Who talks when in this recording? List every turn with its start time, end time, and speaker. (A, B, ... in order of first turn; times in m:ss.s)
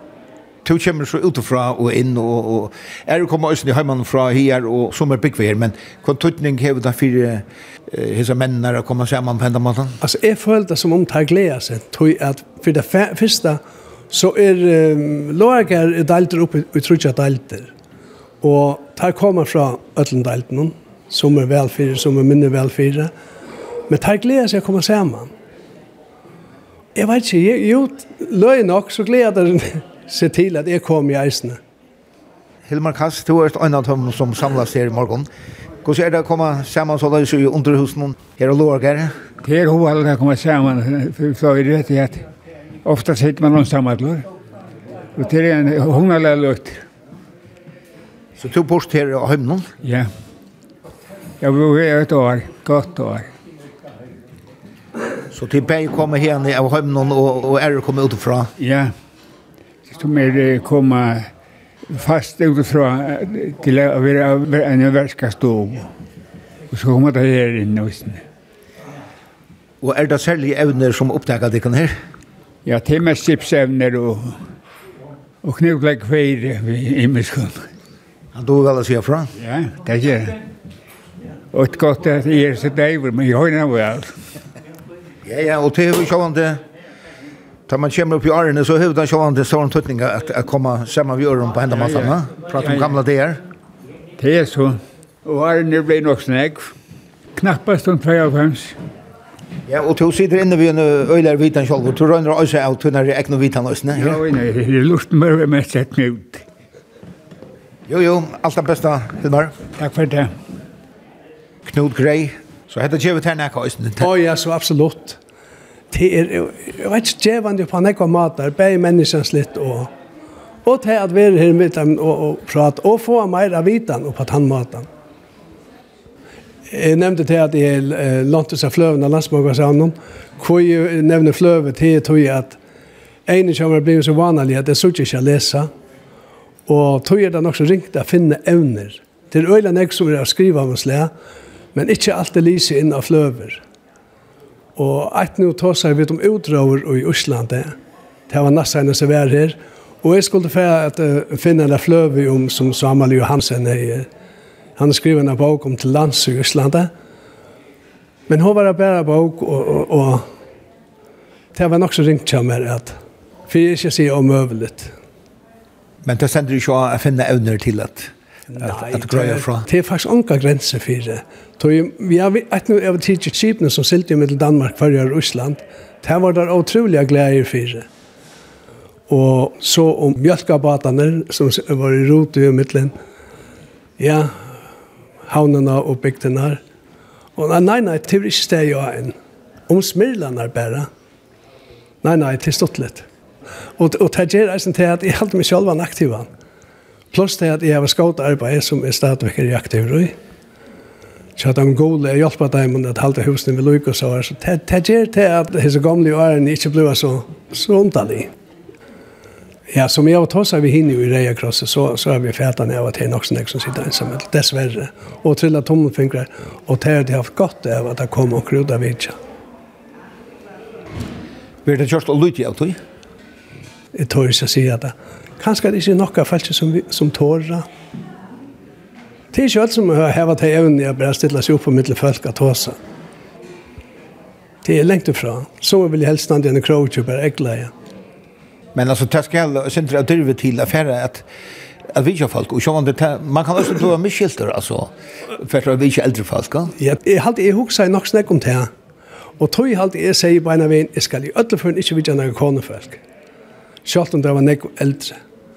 0:00.6-0:10.0 A
0:10.0-0:17.7 B
0:18.4-0:23.1 B
0:23.9-0:25.3 B
0:26.9-0:31.6 B
0:32.7-0:35.3 A
0:35.8-0:39.2 A
0:39.4-0:42.3 C
0:42.8-0:44.2 C
0:45.1-0:46.8 C
0:48.4-0:49.7 A
0:49.8-0:50.1 C
0:51.4-0:53.3 C
0:55.3-0:58.5 A
0:58.6-0:58.9 C
0:59.8-1:01.3 C
1:01.9-1:05.9 C
1:06.7-1:08.2 C
1:09.8-1:11.9 A
1:12.6-1:14.4 C
1:15.4-1:17.7 C
1:18.3-1:19.3 A
1:19.4-1:20.4 C
1:21.5-1:24.2 C
1:25.2-1:26.6 A
1:27.7-1:33.4 A
1:32.6-1:32.9 C
1:34.2-1:36.7 C
1:37.4-1:38.8 C
1:39.7-1:44.2 A
1:43.9-1:46.4 C
1:47.9-1:49.5 A
1:49.8-1:50.4 C
1:51.6-1:54.1 A
1:54.0-1:55.2 B
1:55.9-1:59.9 B
2:00.6-2:04.9 B
2:06.7-2:12.6 B
2:13.2-2:15.7 B
2:16.7-2:21.1 B
2:21.7-2:23.6 B
2:24.8-2:27.7 B
2:28.3-2:34.1 B
2:34.8-2:36.9 B
2:38.3-2:40.2 B
2:41.5-2:43.0 B
2:43.5-2:44.9 B
2:46.0-2:49.7 A
2:48.5-2:57.8 B
2:59.1-3:02.9 B
3:04.0-3:04.4 B
3:05.2-3:06.6 B
3:07.3-3:09.1 B
3:09.7-3:10.9 B
3:12.0-3:13.1 B
3:13.8-3:16.3 B
3:17.1-3:20.2 B
3:21.4-3:28.3 B
3:29.7-3:39.2 B
3:41.6-3:42.8 A
3:43.9-3:47.6 B
3:49.3-3:52.8 B
3:54.6-3:57.7 B
3:58.7-4:01.2 A
4:01.9-4:06.7 A
4:06.8-4:08.7 B
4:09.4-4:13.0 B
4:13.8-4:15.2 B